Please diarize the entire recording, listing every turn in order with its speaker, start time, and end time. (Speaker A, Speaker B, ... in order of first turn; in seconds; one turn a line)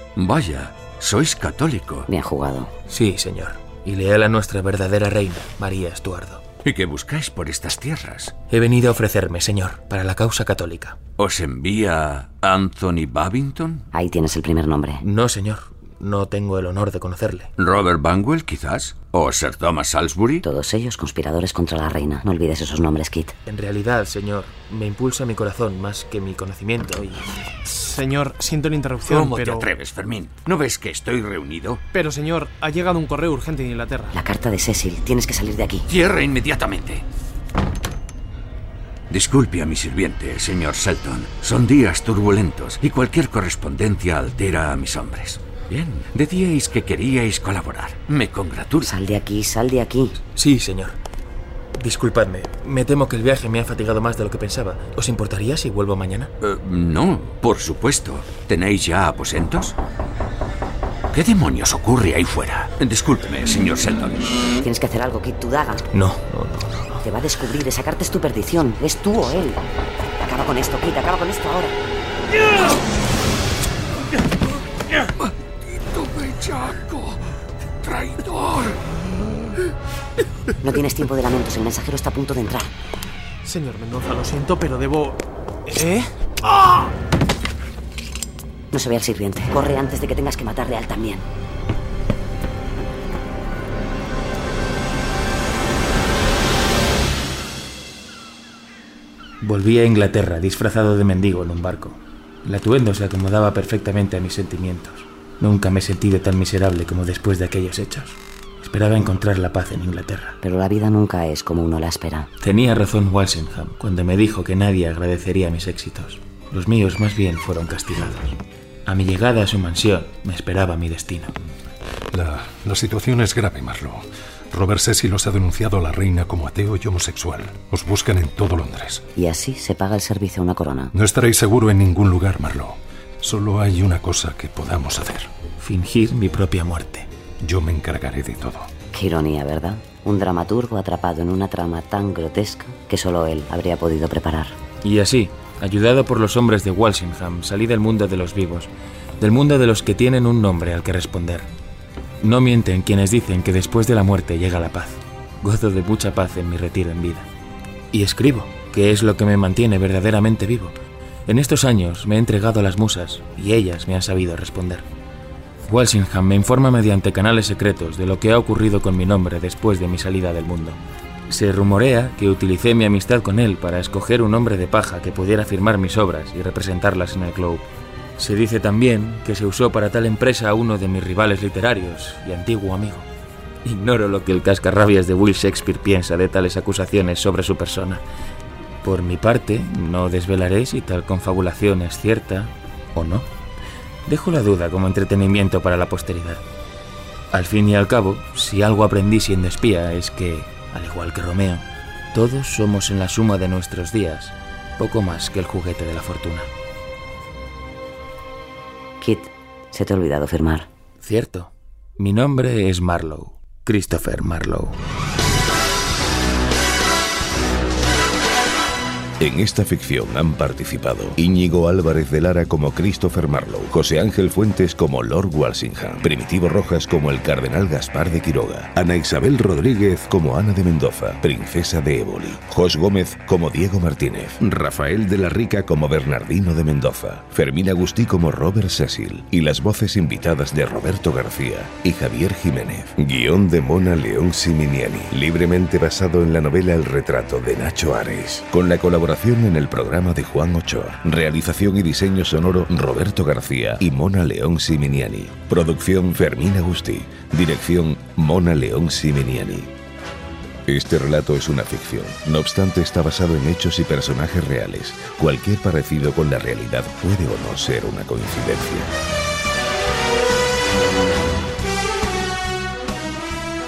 Speaker A: 0.2-2.1
Speaker B: 2.1-2.7
Speaker C: 2.9-6.4
Speaker A: 6.6-8.3
Speaker C: 8.5-11.0
Speaker A: 11.2-13.9
Speaker B: 13.9-15.0
Speaker C: 15.0-17.5
Speaker A: 17.6-20.5
Speaker B: 20.4-23.3
Speaker C: 23.5-27.4
Speaker D: 27.7-29.7
Speaker A: 29.1-31.8
Speaker D: 31.9-34.2
Speaker B: 34.1-35.9
Speaker A: 35.9-37.0
Speaker A: 39.1-49.0
Speaker B: 48.9-50.2
Speaker C: 50.3-51.0
Speaker C: 51.8-56.3
Speaker A: 56.4-59.8
Speaker A: 61.1-64.4
Speaker B: 64.6-65.8
Speaker C: 65.9-67.0
Speaker B: 67.0-69.6
Speaker B: 70.2-71.8
Speaker A: 75.8-77.2
Speaker A: 77.8-78.8
Speaker B: 80.6-82.7
Speaker D: 83.4-86.9
Speaker B: 88.7-91.2
Speaker C: 99.4-110.4
Speaker B: 110.4-112.3
Speaker C: 112.4-121.3
Speaker E: 122.1-129.1
Speaker B: 129.2-130.9
Speaker E: 130.9-135.3
Speaker C: 135.6-137.1
Speaker E: 137.4-138.7
Speaker B: 138.9-144.6
Speaker C: 144.8-151.5
Speaker C: 152.2-157.3
Speaker C: 157.9-160.8
Speaker C: 161.3-164.9
Speaker C: 165.7-177.7
Speaker C: 178.2-183.1
Speaker C: 183.6-188.0
Speaker C: 188.8-193.3
Speaker C: 194.1-196.4
Speaker C: 197.3-206.5
Speaker B: 209.0-210.7
Speaker C: 211.0-214.8
Speaker F: 219.2-259.7
Speaker F: 260.7-268.9